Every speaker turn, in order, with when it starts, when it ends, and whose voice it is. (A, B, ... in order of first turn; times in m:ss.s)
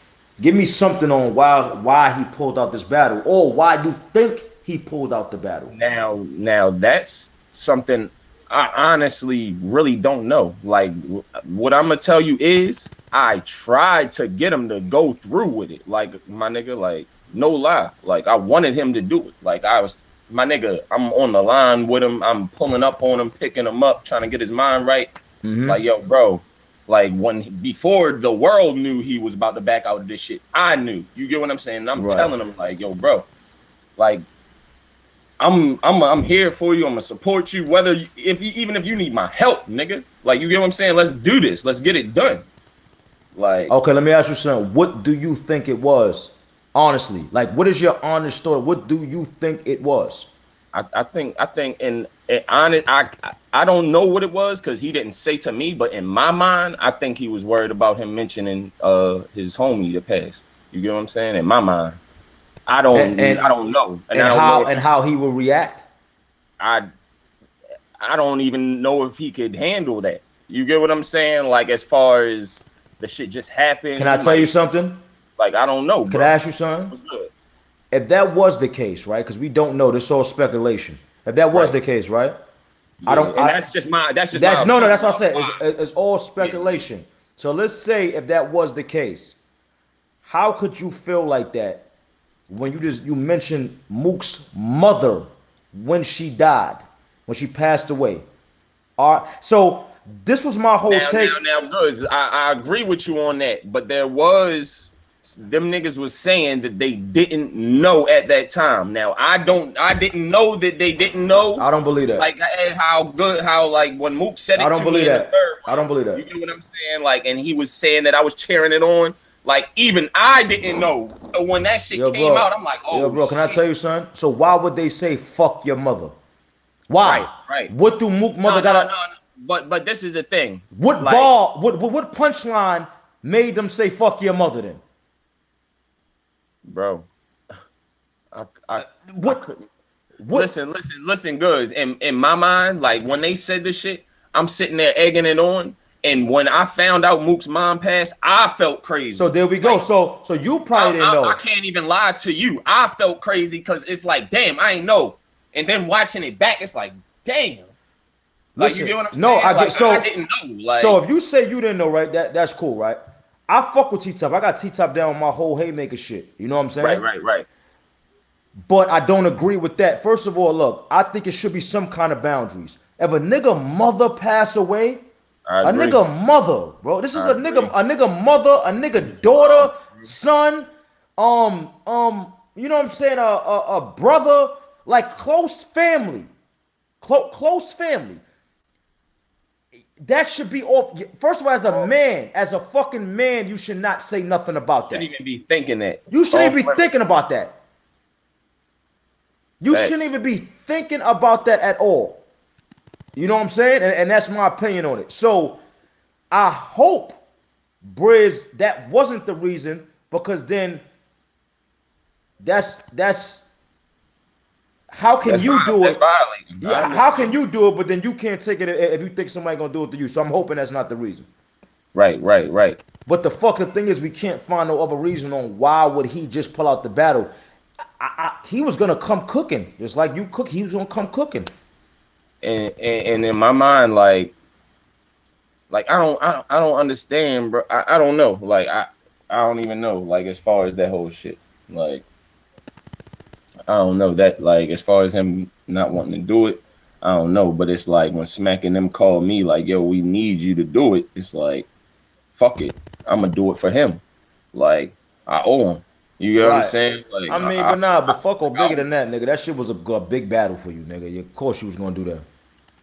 0:00.4-0:05.7 A
0:05.7-0:25.1 B
0:25.4-0:25.8 A
0:25.7-0:33.3 B
0:32.0-0:32.3 A
0:34.0-0:34.3 B
0:35.4-0:42.5 B
0:43.4-0:43.7 B
0:43.7-0:50.3 A
0:50.7-1:02.0 B
1:02.7-1:04.7 B
1:02.9-1:03.5 A
1:04.1-1:05.9 A
1:06.6-1:06.9 B
1:08.0-1:14.5 B
1:14.0-1:15.0 A
1:15.4-1:16.3 B
1:16.1-1:16.9 A
1:16.9-1:17.3 B
1:17.9-1:22.4 A
1:23.0-1:25.6 B
1:23.1-1:23.6 A
1:24.3-1:29.4 A
1:26.4-1:26.7 B
1:30.2-1:31.9 A
1:32.5-1:38.2 A
1:39.0-1:41.4 A
1:40.9-2:03.6 B
1:51.6-1:52.3 A
1:54.6-1:56.2 A
2:01.9-2:06.1 A
2:06.9-2:08.9 A
2:07.0-2:07.7 B
2:08.4-2:11.3 B
2:10.7-2:14.8 A
2:16.6-2:17.1 B
2:18.3-2:19.6 B
2:18.8-2:19.4 A
2:20.2-2:20.5 A
2:20.3-2:29.8 B
2:29.2-2:31.4 A
2:30.7-2:37.7 B
2:38.6-2:40.1 A
2:38.6-2:41.0 B
2:40.7-2:47.0 A
2:46.8-2:47.5 B
2:48.7-2:55.0 A
2:55.5-2:56.0 B
2:55.6-3:00.7 A
2:57.1-2:57.7 B
2:59.3-3:00.1 B
3:01.2-3:06.3 A
3:07.0-3:08.2 A
3:10.0-3:15.1 A
3:14.9-3:16.8 B
3:16.1-3:17.6 A
3:19.6-3:22.2 A
3:23.2-3:25.6 A
3:26.3-3:27.2 A
3:27.8-3:30.8 A
3:32.4-3:33.4 A
3:34.9-3:36.0 A
3:35.2-3:37.4 B
3:36.6-3:41.3 A
3:41.9-3:42.8 B
3:43.1-3:47.3 A
3:48.0-3:51.5 A
3:52.4-3:54.3 B
3:55.7-4:02.0 B
4:03.7-4:11.7 B
4:12.3-4:14.0 B
4:14.5-4:18.8 B
4:16.4-4:16.8 A
4:17.3-4:22.2 A